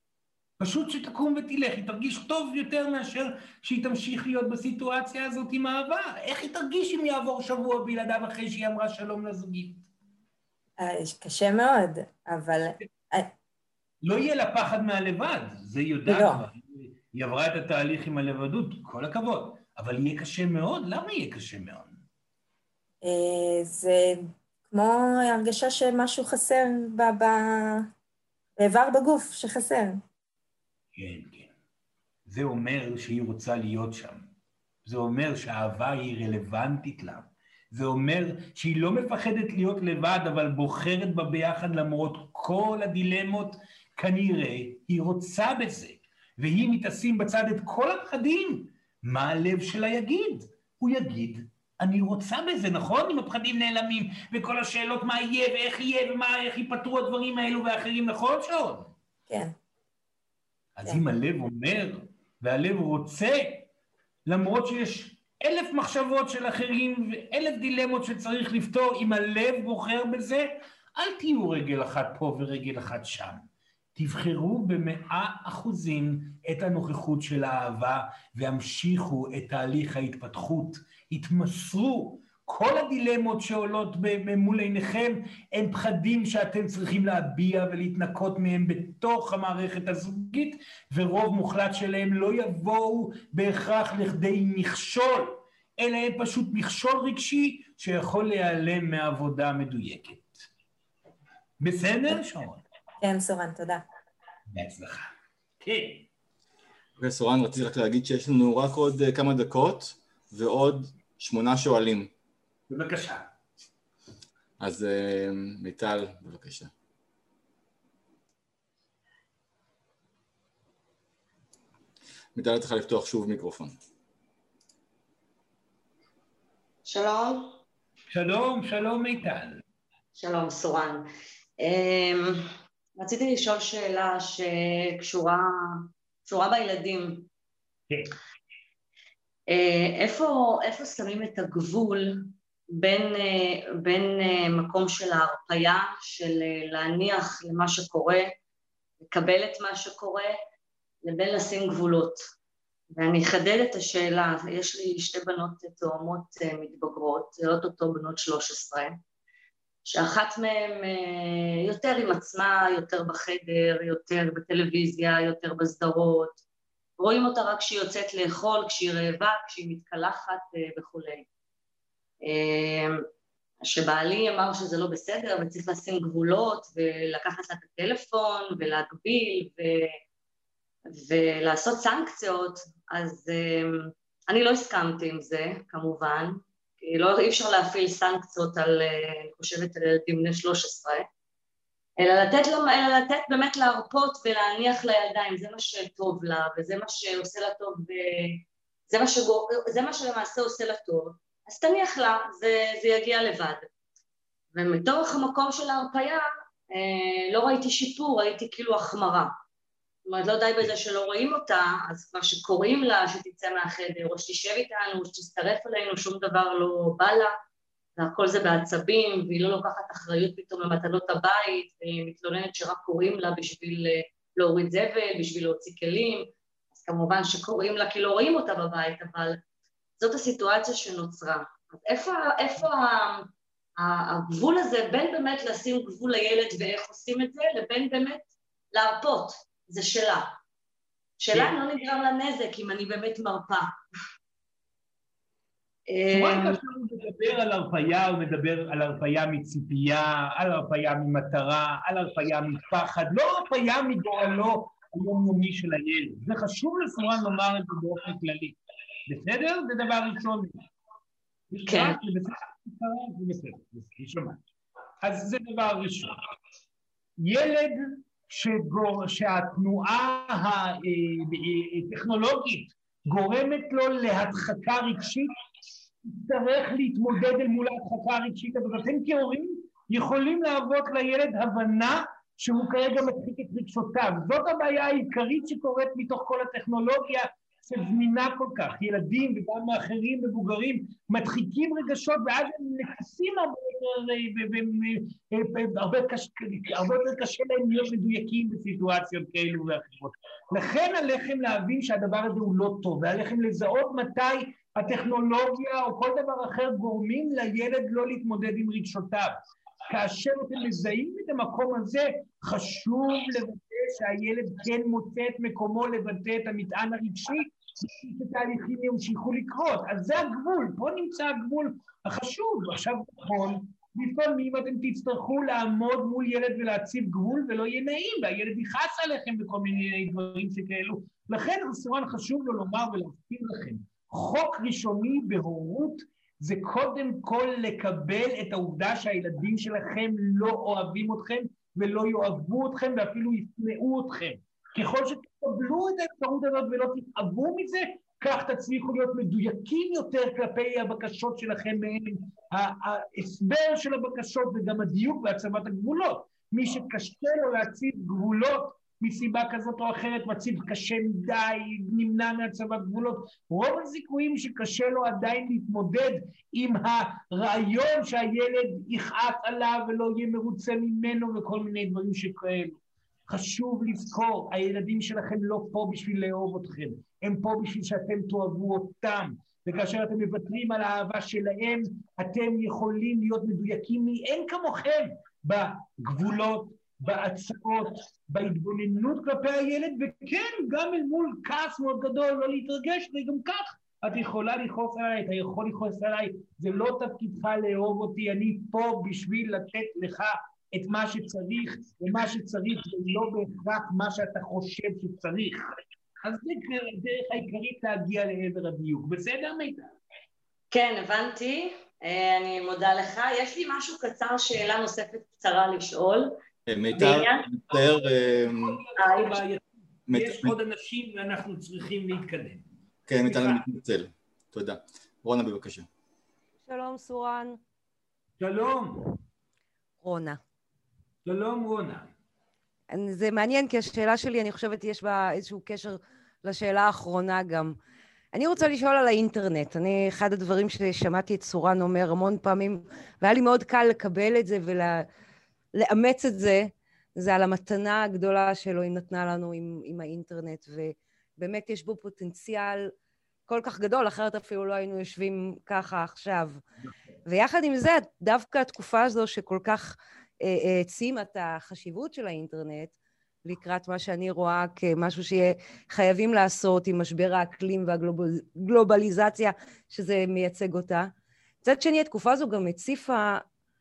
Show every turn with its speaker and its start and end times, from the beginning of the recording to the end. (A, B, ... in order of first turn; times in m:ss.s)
0:00.6-0:09.9 A
0:10.8-0:13.3 B
0:14.0-0:22.0 A
0:16.1-0:16.4 B
0:23.0-0:27.9 B
0:28.6-0:30.0 B
0:31.0-0:31.5 A
0:32.3-0:34.3 A
0:34.8-0:58.9 A
0:59.3-0:59.5 B
1:00.8-1:03.7 A
1:04.3-1:13.4 A
1:14.0-1:40.4 A
1:41.6-1:42.6 A
1:43.0-1:43.8 B
1:44.5-1:45.1 A
1:45.6-1:46.1 A
1:47.0-1:52.1 C
1:52.7-1:53.3 A
1:54.6-1:56.7 C
2:02.4-2:03.8 C
2:06.9-2:07.5 D
2:08.1-2:09.6 A
2:10.2-2:11.1 D
2:11.6-2:12.5 D
2:13.0-2:17.3 D
2:19.5-2:22.3 D
2:22.8-2:28.3 D
2:29.0-2:30.3 D
2:31.0-2:32.2 D
2:33.0-2:39.0 D
2:39.9-2:46.4 D
2:47.0-2:51.2 D
2:52.3-2:53.0 D
2:53.7-2:59.9 D
3:01.0-3:11.1 D
3:12.0-3:23.6 D
3:24.6-3:29.3 D
3:30.1-3:37.3 D
3:38.0-3:49.4 D
3:50.0-3:53.3 D
3:53.8-4:00.3 D
4:01.2-4:03.7 D
4:05.9-4:06.6 D
4:06.1-4:18.6 A
4:19.1-4:20.6 A
4:21.5-4:24.4 A
4:21.7-4:22.0 D
4:25.0-4:26.1 A
4:27.2-4:35.3 A
4:36.0-5:09.3 A
5:09.9-6:45.6 A
6:46.2-6:49.9 A
6:50.7-6:56.3 D
6:56.7-6:58.8 C
6:56.9-6:57.4 D
6:57.7-7:02.6 A
6:59.0-6:59.4 D
7:00.1-7:00.6 C
7:03.1-7:05.9 C
7:03.2-7:03.6 A
7:06.7-7:07.6 E
7:08.4-7:09.1 A
7:10.0-7:10.4 E
7:11.2-7:12.1 A
7:12.9-7:17.8 E
7:18.3-7:25.0 E
7:25.8-7:32.9 E
7:33.5-7:36.6 E
7:37.3-7:42.9 E
7:43.5-7:51.1 E
7:51.6-7:53.4 E